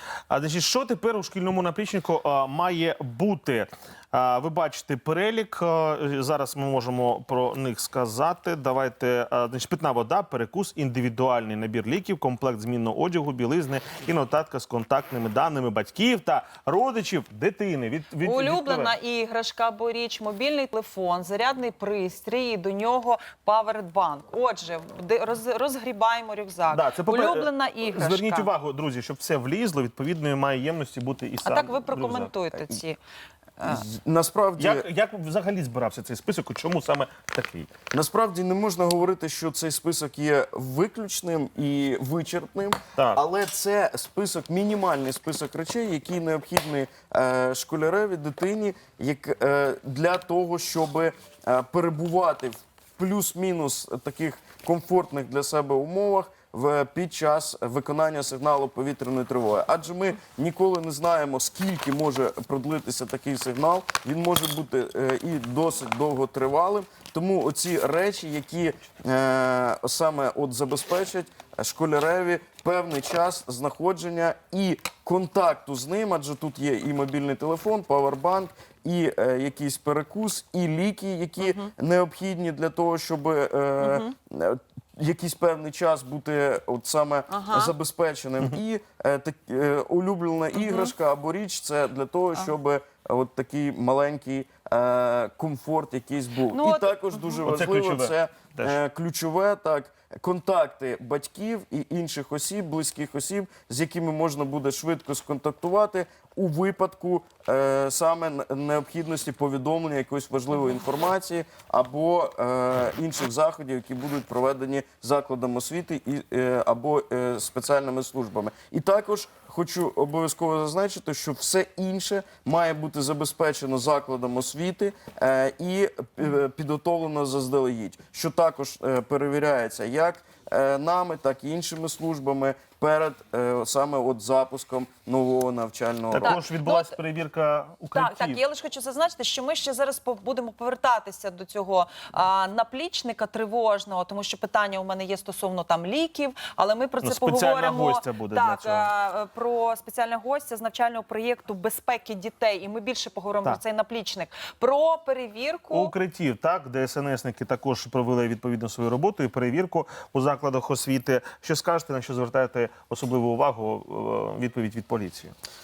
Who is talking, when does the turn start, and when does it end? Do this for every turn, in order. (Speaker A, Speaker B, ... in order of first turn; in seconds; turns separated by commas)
Speaker A: 0.3-18.9, Speaker B: 18.2-28.5, Speaker A: 26.7-32.3, Speaker B: 31.4-33.0, Speaker B: 33.6-33.8, Speaker C: 33.6-34.9, Speaker A: 34.6-37.7, Speaker C: 37.9-136.4, Speaker B: 81.4-81.7, Speaker B: 83.8-84.1, Speaker B: 87.3-87.7, Speaker B: 90.5-90.9, Speaker B: 96.5-97.5, Speaker A: 97.4-98.8, Speaker A: 136.1-138.4, Speaker B: 136.2-136.9, Speaker B: 137.9-155.9, Speaker A: 147.0-148.9, Speaker A: 155.7-165.3